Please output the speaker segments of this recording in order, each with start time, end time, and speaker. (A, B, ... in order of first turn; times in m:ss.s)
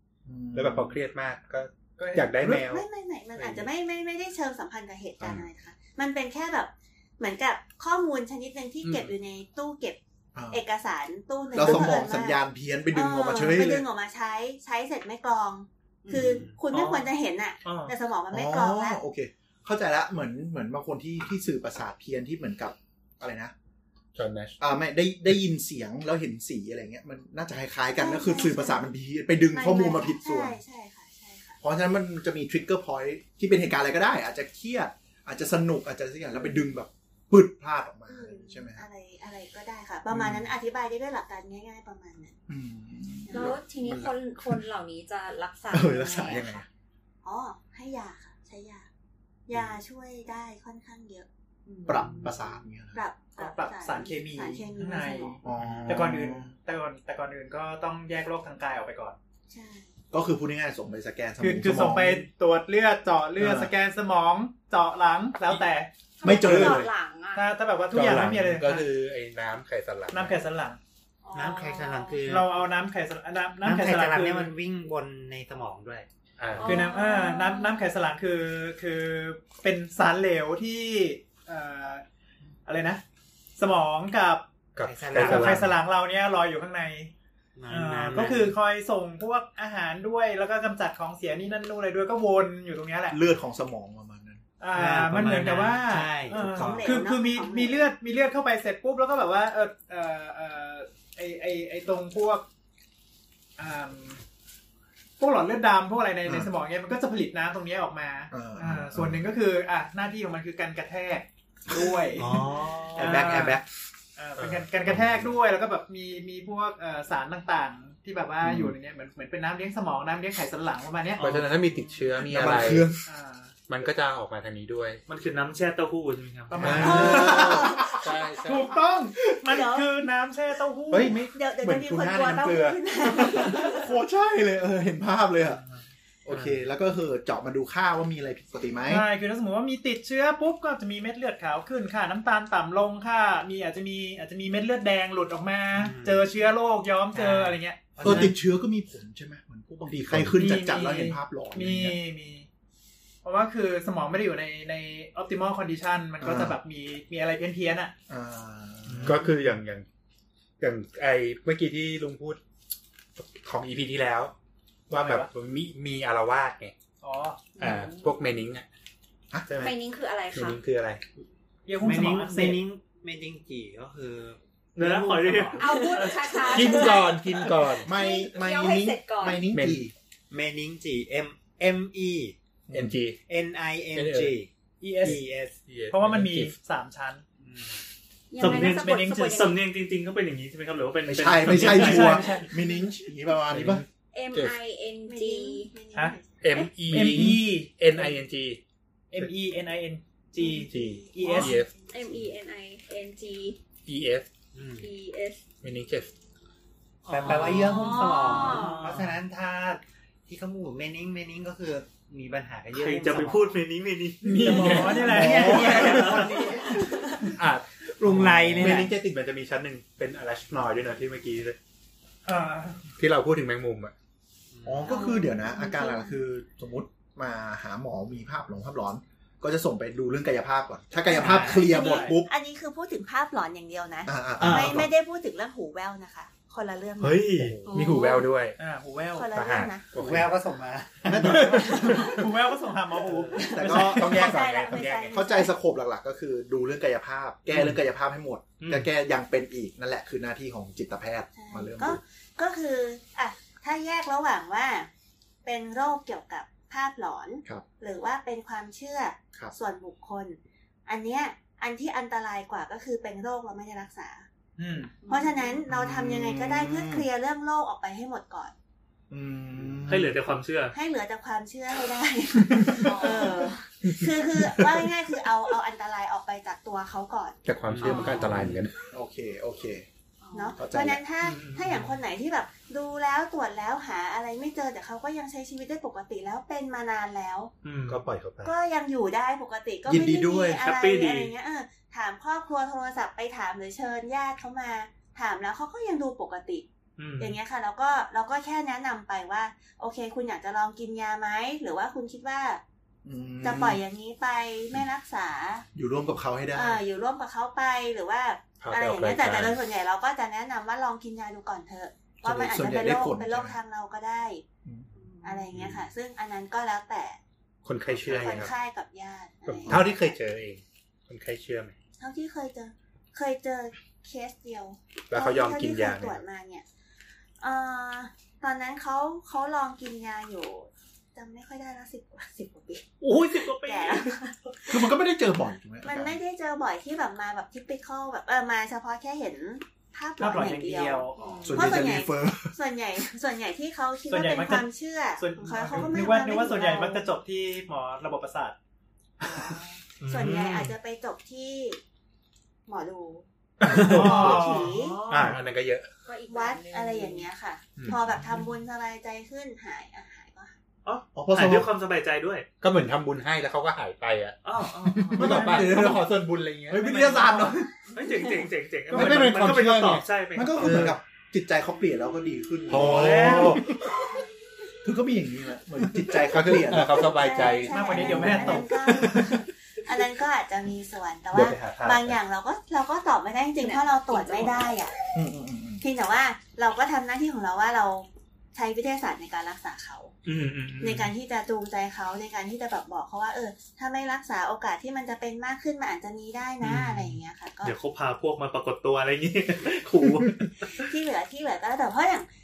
0:00.3-0:01.0 A
0:00.5-0:02.8 B
0:02.0-0:02.5 C
0:02.6-0:10.0 D
0:03.4-0:03.7 B
0:08.8-0:09.1 B
0:10.4-0:10.6 A
0:10.5-0:12.4 D
0:11.5-0:13.9 A
0:12.9-0:19.0 D
0:16.1-0:17.1 E
0:17.6-0:17.9 E
0:18.3-0:23.5 A
0:24.2-0:24.6 B
0:24.6-0:30.6 A
0:28.0-0:28.9 D
0:29.5-0:31.6 D
0:31.6-0:38.9 A
0:38.1-0:42.4 D
0:40.1-0:40.5 A
0:42.5-0:44.6 A
0:43.3-0:43.6 D
0:43.3-0:46.6 F
0:45.7-0:46.7 A
0:47.2-0:48.9 D
0:49.5-0:51.3 D
0:51.7-0:52.3 F
0:51.9-0:53.0 A
0:52.9-0:55.4 D
0:53.4-0:59.2 C
0:55.4-0:56.5 A
0:55.6-0:56.0 B
0:59.5-0:59.9 D
1:00.1-1:02.3 A
1:01.4-1:06.8 C
1:03.4-1:03.7 A
1:06.2-1:07.5 F
1:06.2-1:06.9 A
1:07.3-1:08.9 C
1:07.9-1:10.4 B
1:10.1-1:10.8 C
1:11.2-1:12.3 F
1:11.3-1:12.5 G
1:12.2-1:14.5 C
1:13.6-1:16.1 G
1:16.4-1:16.9 B
1:16.6-1:22.0 C
1:16.6-1:17.8 F
1:22.6-1:23.0 C
1:23.6-1:24.5 C
1:24.8-1:25.8 B
1:24.8-1:25.7 G
1:25.1-1:27.1 C
1:27.6-1:28.6 G
1:27.7-1:33.2 C
1:33.1-1:34.4 A
1:34.6-1:42.4 C
1:34.7-1:36.9 G
1:36.3-1:37.9 D
1:43.6-1:44.2 C
1:45.2-1:53.6 C
1:48.3-1:49.2 A
1:52.2-1:53.2 E
1:53.0-1:53.7 A
1:54.2-2:01.4 C
1:54.4-1:55.3 B
1:58.4-1:58.7 A
2:01.2-2:03.0 B
2:02.2-2:03.0 A
2:03.0-2:03.5 C
2:03.7-2:05.0 B
2:05.1-2:07.0 E
2:06.5-2:07.8 C
2:06.6-2:08.0 A
2:06.6-2:07.4 B
2:06.9-2:07.8 D
2:07.9-2:08.8 B
2:08.4-2:11.3 C
2:09.5-2:09.9 D
2:10.9-2:15.6 A
2:11.3-2:13.9 D
2:16.3-2:19.1 A
2:18.9-2:28.3 C
2:25.8-2:26.3 G
2:27.1-2:28.4 G
2:28.0-2:32.0 A
2:30.0-2:30.3 B
2:30.3-2:32.5 C
2:33.2-2:37.9 C
2:36.2-2:36.6 A
2:38.1-2:39.2 A
2:38.9-2:39.2 E
2:39.0-2:39.9 B
2:40.6-2:42.4 B
2:43.2-2:44.3 B
2:44.9-2:46.7 B
2:44.9-2:45.3 C
2:47.0-2:47.5 C
2:47.6-2:48.7 B
2:47.6-2:48.1 F
2:49.5-2:49.8 B
2:49.6-2:50.6 F
2:50.3-2:51.0 B
2:51.7-2:52.6 C
2:51.8-2:56.0 G
2:54.8-2:56.5 E
2:55.6-2:59.4 F
2:56.5-2:57.9 B
2:57.8-2:59.9 A
2:59.5-2:59.8 B
3:00.3-3:02.4 G
3:02.7-3:03.0 A
3:02.7-3:03.2 B
3:03.3-3:04.5 G
3:03.9-3:04.4 B
3:04.8-3:05.3 C
3:05.0-3:05.6 G
3:05.7-3:06.6 B
3:05.9-3:07.2 C
3:07.4-3:07.7 G
3:08.3-3:09.6 F
3:08.4-3:12.4 E
3:08.4-3:09.4 C
3:11.1-3:13.8 A
3:11.5-3:12.5 C
3:13.5-3:14.6 B
3:14.1-3:15.7 F
3:15.1-3:16.4 D
3:16.4-3:18.6 B
3:16.8-3:18.2 C
3:19.1-3:21.6 C
3:20.4-3:21.6 D
3:20.7-3:21.7 B
3:21.4-3:23.6 F
3:23.9-3:24.3 B
3:24.5-3:24.9 G
3:24.8-3:25.4 F
3:25.6-3:26.1 B
3:27.0-3:29.1 E
3:27.1-3:33.6 G
3:27.5-3:28.9 F
3:32.7-3:35.0 E
3:34.2-3:35.8 B
3:34.4-3:37.3 C
3:35.1-3:36.3 A
3:35.2-3:37.1 G
3:35.6-3:36.2 E
3:37.4-3:41.6 B
3:38.0-3:38.9 G
3:38.1-3:38.8 A
3:42.2-3:42.8 C
3:43.0-3:43.9 B
3:44.5-3:45.1 G
3:44.6-3:52.3 A
3:44.9-3:46.1 D
3:51.2-3:51.5 E
3:51.2-3:52.1 C
3:51.2-3:51.5 G
3:51.5-3:57.3 D
3:54.1-3:54.9 A
3:54.4-3:54.8 E
3:57.0-3:57.6 E
3:57.4-3:57.7 A
3:57.6-3:58.6 B
3:57.7-3:58.2 F
3:58.6-3:59.3 C
3:59.2-3:59.9 D
3:59.3-4:00.3 B
3:59.9-4:02.0 G
4:01.1-4:02.0 A
4:01.1-4:04.4 C
4:03.4-4:12.0 A
4:04.0-4:05.5 D
4:04.1-4:05.2 B
4:08.6-4:08.9 E
4:11.3-4:14.9 D
4:15.4-4:24.3 D
4:24.6-4:25.0 C
4:25.0-4:25.6 F
4:25.1-4:28.5 D
4:25.7-4:27.1 A
4:29.1-4:30.2 A
4:29.9-4:30.8 E
4:30.7-4:37.4 D
4:32.8-4:33.5 F
4:37.4-4:38.7 B
4:37.7-4:38.6 G
4:37.8-4:38.4 F
4:38.9-4:39.9 A
4:40.2-4:40.6 F
4:40.3-4:47.5 D
4:40.6-4:41.0 A
4:41.2-4:42.0 E
4:47.6-4:48.0 E
4:47.9-4:48.5 B
4:48.4-4:56.7 D
4:49.9-4:50.6 A
4:50.6-4:51.3 E
4:57.0-4:57.4 E
4:57.2-5:02.6 D
5:03.0-5:03.8 A
5:03.4-5:05.7 D
5:05.8-5:06.8 A
5:06.5-5:14.4 D
5:08.6-5:09.6 B
5:12.2-5:13.6 A
5:15.0-5:15.5 F
5:15.2-5:17.2 D
5:17.6-5:18.5 B
5:17.9-5:18.5 G
5:18.1-5:20.2 D
5:19.5-5:21.8 B
5:22.0-5:26.6 D
5:25.1-5:26.2 B
5:27.4-5:34.7 D
5:33.0-5:34.5 E
5:34.7-5:36.2 A
5:35.8-5:47.0 D
5:40.2-5:41.1 C
5:41.2-5:41.6 F
5:41.4-5:42.5 A
5:44.1-5:48.6 C
5:49.2-5:51.8 D
5:49.2-5:49.6 C
5:50.0-5:50.8 E
5:52.7-5:53.2 D
5:53.6-5:55.9 B
5:53.7-5:55.4 E
5:53.8-5:54.7 C
5:53.8-5:55.0 D
5:56.1-5:57.3 F
5:56.3-6:00.6 D
5:57.8-5:58.0 B
6:00.8-6:02.5 E
6:01.2-6:01.7 A
6:02.6-6:04.4 B
6:04.4-6:05.6 E
6:05.0-6:07.0 B
6:05.1-6:06.2 A
6:06.7-6:07.7 A
6:07.1-6:07.5 C
6:07.9-6:11.0 E
6:08.9-6:10.0 B
6:08.9-6:13.7 A
6:10.6-6:11.0 B
6:12.7-6:13.7 E
6:12.7-6:13.6 B
6:14.8-6:17.1 A
6:16.3-6:18.5 B
6:16.8-6:24.9 D
6:17.7-6:19.4 C
6:18.0-6:18.6 A
6:21.4-6:22.0 E
6:23.6-6:24.7 F
6:25.1-6:25.8 A
6:25.8-6:30.1 D
6:30.3-6:31.1 E
6:30.8-6:37.8 D
6:36.6-6:40.8 E
6:40.7-6:42.3 D